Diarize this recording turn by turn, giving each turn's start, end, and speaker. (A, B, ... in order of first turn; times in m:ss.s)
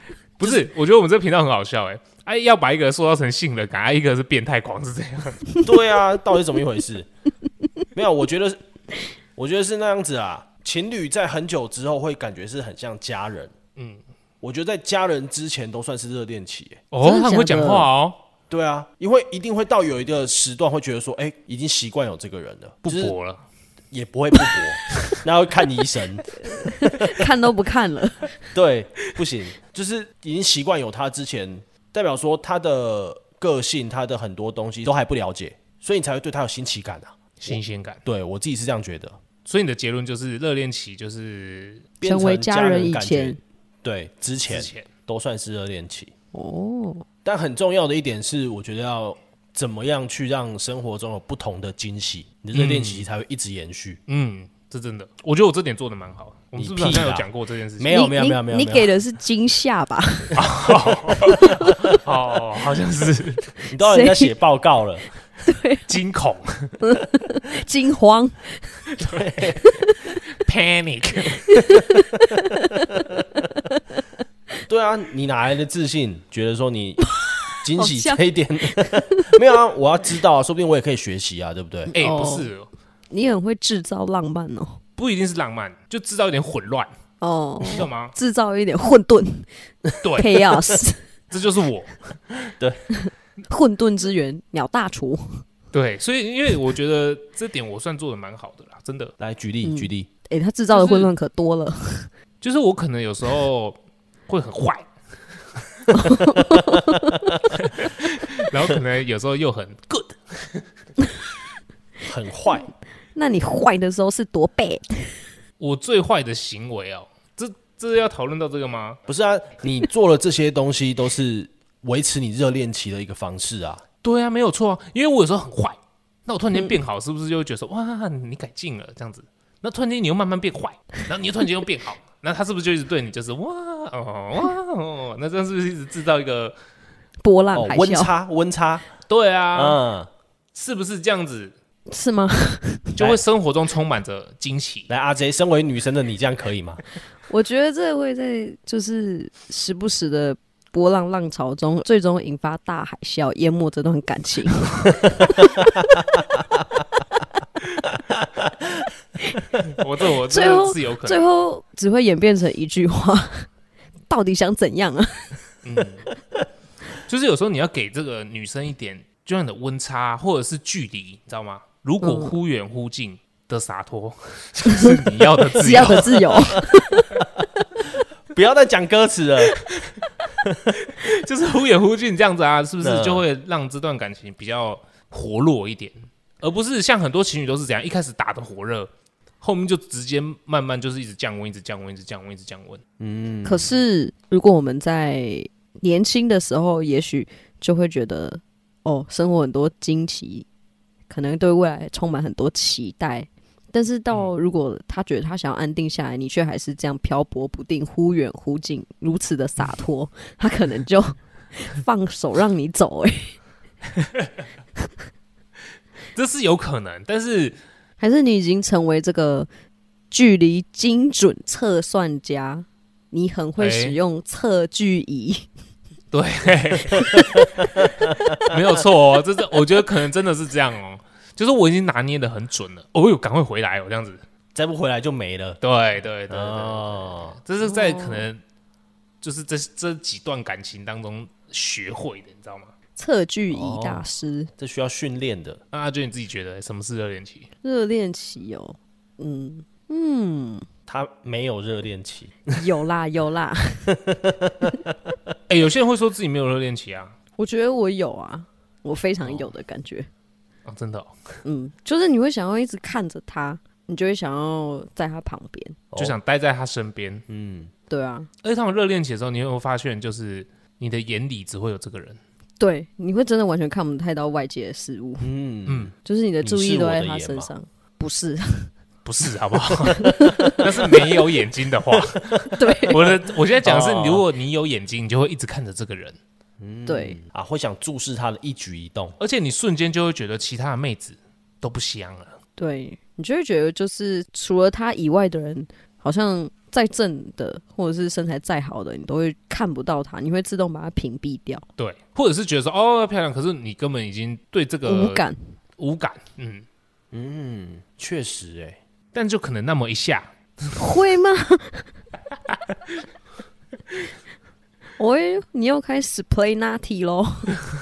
0:00.4-0:05.5 A
0:05.6-0:07.1 B
0:07.9-0:08.6 B
0:09.4-0:13.5 B
0:14.4-0:16.8 B
0:16.9-0:18.2 A
0:17.0-0:17.9 C
0:18.5-0:23.1 B
0:22.8-0:23.4 A
0:23.9-0:27.2 B
0:26.4-0:28.4 C
0:28.5-0:39.2 B
0:37.4-0:38.0 A
0:39.4-0:41.9 A
0:42.0-0:46.1 B
0:42.0-0:43.4 C
0:44.5-0:44.9 A
0:46.3-0:47.0 C
0:47.2-0:54.0 B
0:52.5-0:53.1 A
0:54.1-0:58.0 A
0:56.6-0:57.3 B
0:57.8-0:58.9 B
0:57.8-1:00.4 C
1:00.4-1:03.5 A
1:01.2-1:01.5 B
1:03.7-1:04.3 C
1:03.7-1:05.0 B
1:05.4-1:05.9 C
1:05.9-1:06.8 A
1:06.8-1:08.8 C
1:08.9-1:09.2 A
1:09.0-1:09.8 B
1:10.3-1:11.8 A
1:11.5-1:13.1 C
1:12.9-1:13.2 B
1:13.7-1:14.0 C
1:14.7-1:17.1 B
1:17.0-1:19.4 C
1:17.6-1:21.9 B
1:21.9-1:22.5 C
1:21.9-1:22.7 A
1:23.1-1:24.8 C
1:25.0-1:26.9 A
1:27.2-1:29.5 C
1:27.6-1:28.1 A
1:30.0-1:30.4 A
1:30.2-1:31.0 C
1:31.3-1:32.2 A
1:32.5-1:32.8 B
1:33.0-1:35.4 C
1:35.7-1:39.1 A
1:39.2-1:40.1 B
1:39.6-1:42.1 C
1:40.7-1:41.1 A
1:42.4-1:44.9 A
1:45.5-1:46.2 A
1:45.9-1:47.1 C
1:47.5-1:50.6 A
1:52.0-1:52.7 B
1:53.1-1:55.2 C
1:55.6-1:59.0 A
1:59.1-2:03.8 B
2:04.0-2:16.6 A
2:17.2-2:18.1 C
2:17.5-2:18.9 B
2:19.1-2:19.8 A
2:19.5-2:20.1 B
2:20.5-2:21.5 A
2:21.9-2:23.0 C
2:23.0-2:24.9 A
2:24.9-2:26.8 B
2:27.3-2:35.2 C
2:39.6-2:41.3 A
2:40.3-2:43.5 C
2:44.1-2:45.5 C
2:45.6-2:46.1 A
2:47.0-2:56.6 A
2:52.0-2:52.3 C
2:55.6-2:57.1 C
2:58.3-2:59.6 B
2:59.7-3:00.0 A
3:00.8-3:08.9 A
3:02.8-3:03.2 B
3:09.4-3:12.8 A
3:13.0-3:13.8 B
3:13.4-3:20.4 C
3:21.1-3:33.4 C
3:34.0-3:34.3 A
3:36.1-3:37.6 A
3:38.0-3:39.5 C
3:40.1-3:45.5 C
3:43.6-3:44.0 A
3:46.1-3:54.2 A
3:47.2-3:48.1 B
3:54.5-3:55.6 B
3:55.6-3:58.4 A
3:56.3-3:57.4 B
3:57.6-3:58.3 C
3:59.2-4:02.7 A
4:03.0-4:04.5 C
4:03.5-4:04.0 B
4:04.6-4:05.6 B
4:05.7-4:07.5 A
4:07.6-4:10.7 C
4:10.9-4:12.4 B
4:12.5-4:14.0 C
4:14.1-4:14.7 B
4:15.5-4:17.1 A
4:17.4-4:20.1 C
4:20.6-4:21.2 A
4:21.4-4:25.8 C
4:25.9-4:26.2 B
4:26.0-4:27.2 A
4:27.3-4:27.7 B
4:27.9-4:28.3 C
4:28.4-4:32.2 A
4:32.6-4:35.3 C
4:35.2-4:37.5 B
4:35.6-4:35.9 A
4:36.0-4:38.7 C
4:39.0-4:46.2 A
4:40.0-4:40.6 C
4:42.5-4:43.0 B
4:42.6-4:43.1 C
4:43.6-4:44.2 B
4:46.6-4:49.2 B
4:46.9-4:47.2 C
4:49.2-4:52.4 A
4:52.6-5:01.6 C
5:01.8-5:05.2 A
5:04.8-5:05.4 C
5:05.8-5:06.6 A
5:07.1-5:08.8 B
5:09.1-5:10.8 A
5:10.8-5:11.9 C
5:15.0-5:17.6 C